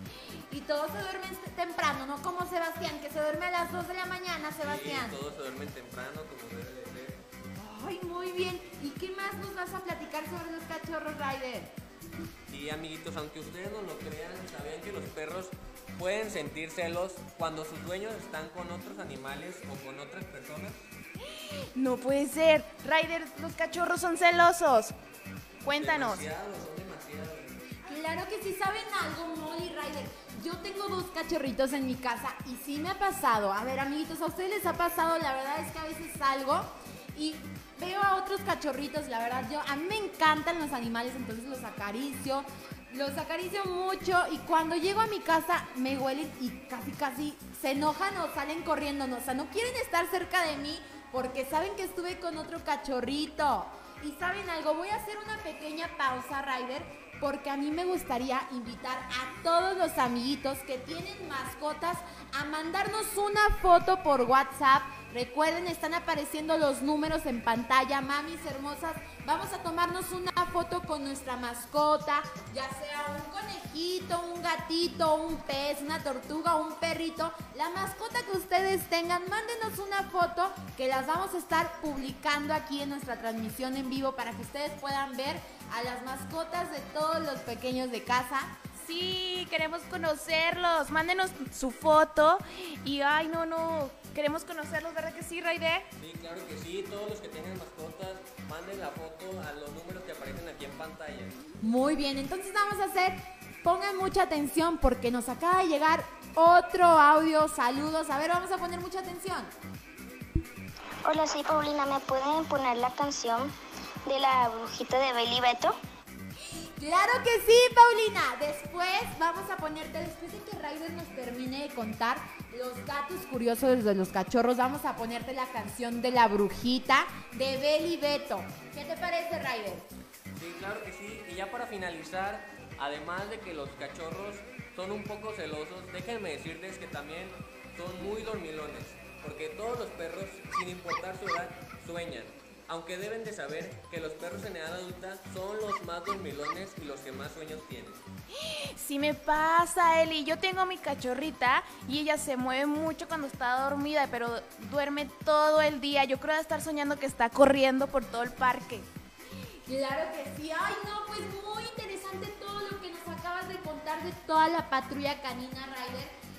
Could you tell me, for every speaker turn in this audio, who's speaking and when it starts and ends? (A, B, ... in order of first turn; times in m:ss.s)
0:00.5-0:05.2 A
0:04.6-0:07.2 B
0:07.6-0:11.7 A
0:12.5-0:20.9 B
0:21.4-0:25.0 C
0:25.6-0:26.2 C
0:25.8-0:27.6 B
0:27.9-1:28.5 A
1:28.8-1:35.9 C
1:36.0-1:41.4 B
1:41.6-1:49.5 A
1:51.0-1:53.5 D
1:54.1-1:55.8 D
1:56.8-2:09.9 A
2:10.3-2:28.0 B
2:28.4-2:38.9 C
2:39.7-2:46.1 A